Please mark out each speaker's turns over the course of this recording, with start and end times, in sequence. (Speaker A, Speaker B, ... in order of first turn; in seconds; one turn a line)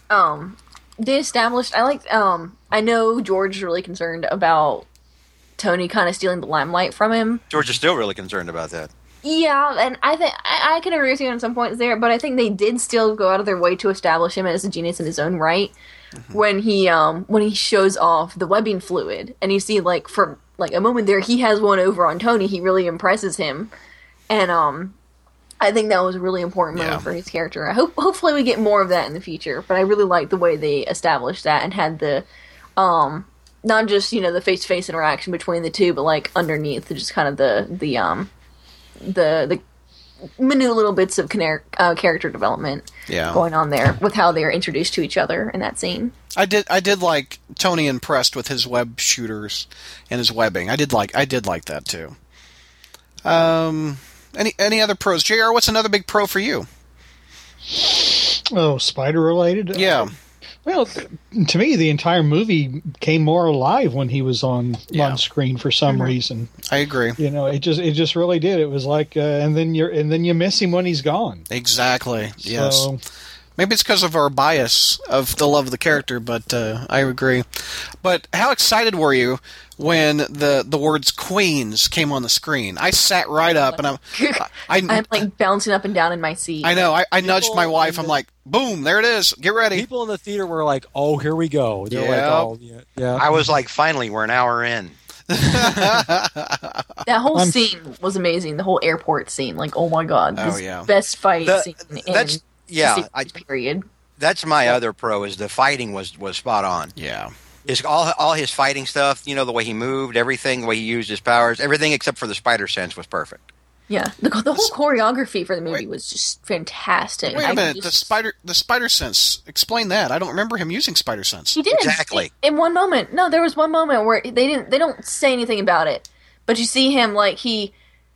Speaker A: 0.1-4.9
Speaker A: 5.6-7.4
Speaker B: 7.5-8.9
Speaker A: 9.2-15.7
Speaker A: 16.3-23.7
Speaker A: 24.3-24.9
Speaker A: 25.6-32.3
Speaker C: 26.7-27.1
Speaker A: 32.8-38.3
Speaker A: 39.0-39.6
Speaker A: 40.4-46.1
Speaker C: 43.1-43.4
Speaker C: 46.4-52.2
Speaker C: 53.2-56.7
Speaker D: 57.7-60.1
Speaker C: 59.7-60.1
Speaker D: 60.6-66.5
Speaker C: 64.9-65.2
Speaker C: 66.7-67.2
Speaker D: 67.2-71.5
Speaker C: 71.5-72.9
Speaker D: 72.4-73.0
Speaker C: 73.6-85.2
Speaker A: 84.2-86.9
Speaker C: 86.6-89.9
Speaker E: 87.2-88.2
Speaker E: 89.7-93.2
Speaker C: 91.9-92.5
Speaker B: 93.2-95.0
Speaker C: 95.3-97.0
Speaker A: 97.1-103.8
Speaker D: 97.3-97.7
Speaker C: 100.3-100.9
Speaker B: 101.4-103.3
Speaker B: 104.2-106.9
Speaker C: 107.0-107.3
Speaker B: 107.7-113.4
Speaker A: 113.9-118.1
Speaker C: 117.3-121.6
Speaker A: 121.5-127.7
Speaker B: 121.7-122.3